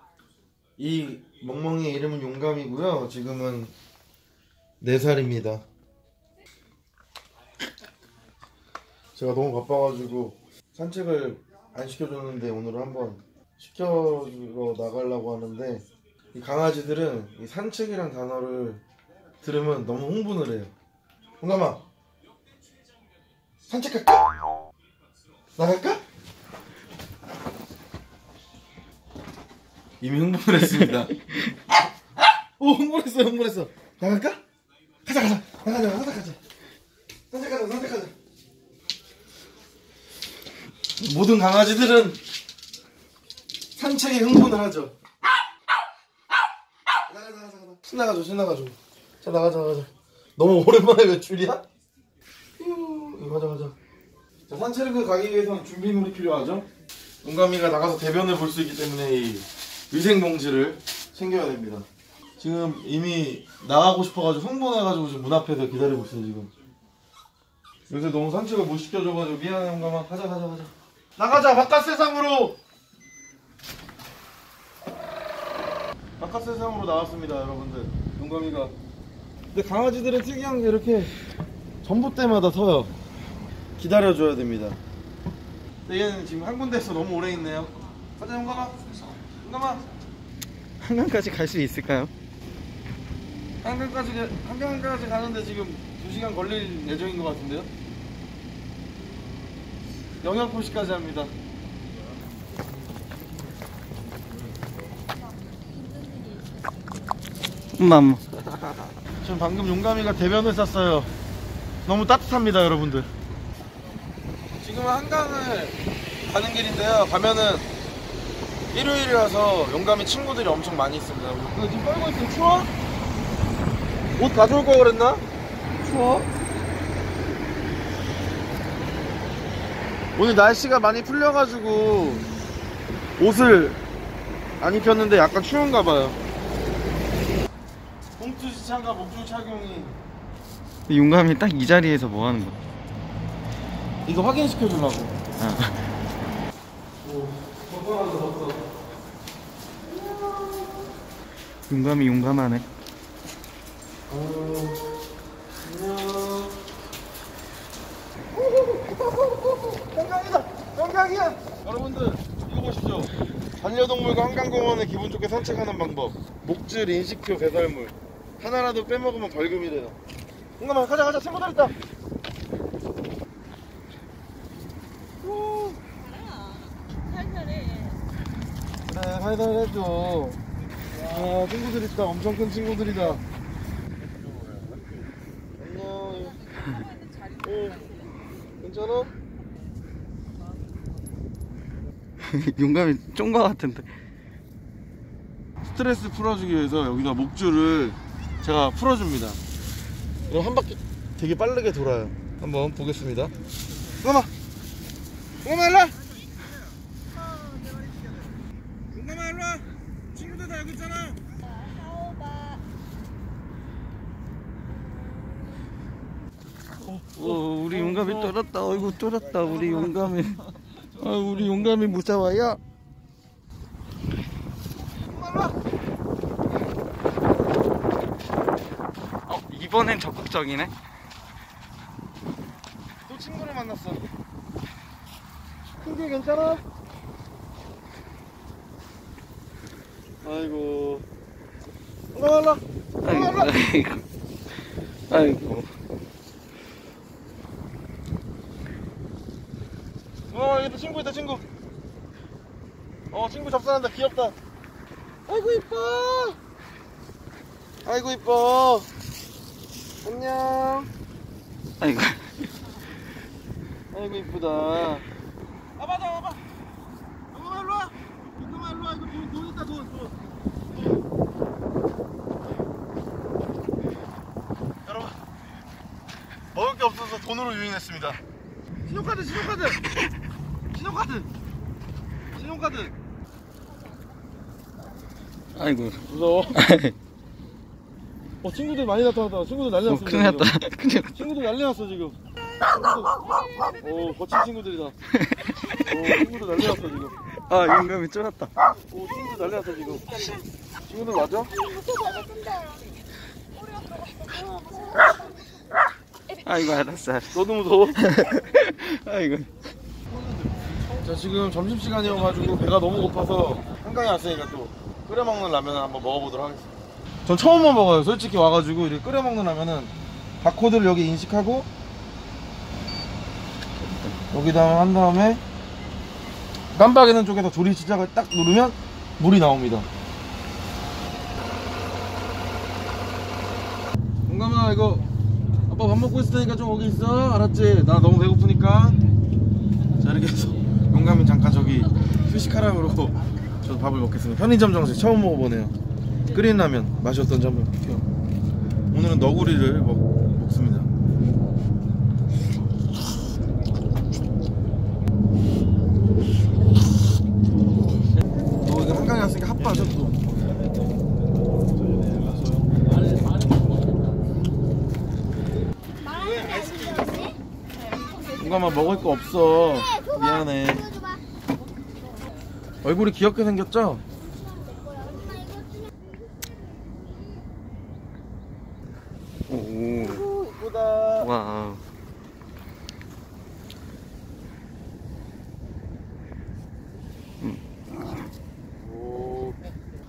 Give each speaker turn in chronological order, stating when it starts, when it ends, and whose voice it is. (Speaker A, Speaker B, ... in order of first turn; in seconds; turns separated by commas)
Speaker A: 0.8-3.7, Speaker A: 4.8-5.6, Speaker A: 9.2-18.8, Speaker A: 19.4-20.7, Speaker A: 21.4-21.8, Speaker A: 23.7-24.3, Speaker A: 25.6-26.0, Speaker A: 30.0-31.1, Speaker B: 30.6-31.5, Speaker A: 32.6-34.4, Speaker A: 35.1-36.4, Speaker A: 37.3-38.1, Speaker A: 41.0-42.2, Speaker A: 43.8-45.0, Speaker A: 47.1-51.6, Speaker A: 52.6-53.8, Speaker A: 54.5-56.7, Speaker A: 57.2-61.9, Speaker A: 62.4-66.5, Speaker A: 67.9-72.6, Speaker A: 76.2-78.8, Speaker A: 79.5-81.1, Speaker A: 81.8-82.9, Speaker A: 83.8-84.8, Speaker A: 85.9-89.8, Speaker B: 90.8-92.1, Speaker A: 93.6-97.7, Speaker A: 100.2-101.3, Speaker C: 105.9-106.4, Speaker B: 107.8-108.3, Speaker A: 109.2-111.1, Speaker A: 111.8-113.1, Speaker A: 114.6-117.7, Speaker A: 118.7-122.7, Speaker A: 124.2-125.2, Speaker A: 125.8-126.3, Speaker A: 130.2-132.2, Speaker A: 133.2-133.8, Speaker A: 134.6-136.2, Speaker A: 138.2-140.0, Speaker B: 140.9-142.6, Speaker A: 144.1-145.2, Speaker B: 145.4-145.8, Speaker A: 147.0-148.7, Speaker A: 149.9-150.7, Speaker B: 151.7-152.7, Speaker A: 154.1-155.0, Speaker A: 155.6-156.6, Speaker A: 158.3-170.0, Speaker A: 170.6-171.7, Speaker A: 175.2-175.8, Speaker C: 176.2-178.0, Speaker A: 178.9-180.4, Speaker A: 181.0-183.2, Speaker A: 185.6-186.6, Speaker A: 187.4-187.9, Speaker A: 188.6-189.1, Speaker B: 192.2-193.9, Speaker A: 195.7-199.4, Speaker A: 200.3-203.3, Speaker A: 204.0-204.3, Speaker A: 205.4-206.1, Speaker A: 207.4-208.2, Speaker A: 208.9-211.2, Speaker C: 211.7-212.6, Speaker A: 216.8-218.3, Speaker B: 217.2-220.4, Speaker B: 220.9-222.6, Speaker A: 225.0-225.6, Speaker B: 229.3-230.7, Speaker A: 233.1-234.0, Speaker A: 235.8-236.6, Speaker A: 240.2-241.1, Speaker A: 242.1-243.5, Speaker B: 243.0-244.0, Speaker B: 245.1-245.7, Speaker A: 250.3-251.4, Speaker A: 253.1-254.3, Speaker A: 255.3-256.4, Speaker A: 257.9-258.9, Speaker A: 260.0-260.9, Speaker B: 261.8-262.5, Speaker A: 263.9-265.1, Speaker A: 265.8-266.4, Speaker A: 267.3-270.1, Speaker A: 274.9-275.2, Speaker A: 276.5-278.2, Speaker A: 278.9-279.8, Speaker A: 280.7-281.3, Speaker A: 282.3-282.9, Speaker B: 285.6-286.9, Speaker A: 286.1-286.6, Speaker A: 288.4-290.5, Speaker B: 289.9-291.2, Speaker A: 291.1-292.2, Speaker A: 292.7-293.1, Speaker A: 293.8-294.9, Speaker B: 295.1-296.2, Speaker A: 295.9-297.2, Speaker B: 297.4-298.5, Speaker A: 298.7-301.6, Speaker C: 301.8-302.8, Speaker C: 303.6-305.1, Speaker B: 306.4-307.4, Speaker A: 307.3-308.0, Speaker B: 307.9-309.5, Speaker A: 311.0-316.7, Speaker A: 317.3-321.7, Speaker B: 323.8-324.1, Speaker A: 324.3-325.4, Speaker A: 326.7-329.9, Speaker A: 334.3-335.0, Speaker A: 335.7-339.0, Speaker A: 340.0-345.7, Speaker A: 346.3-348.1, Speaker A: 348.9-350.9, Speaker A: 358.6-360.2, Speaker C: 366.1-367.4, Speaker A: 368.4-370.9, Speaker A: 372.8-374.0, Speaker C: 374.9-375.6, Speaker B: 379.5-380.2, Speaker A: 380.0-381.3, Speaker B: 381.2-381.8, Speaker B: 387.4-388.3, Speaker A: 388.8-389.6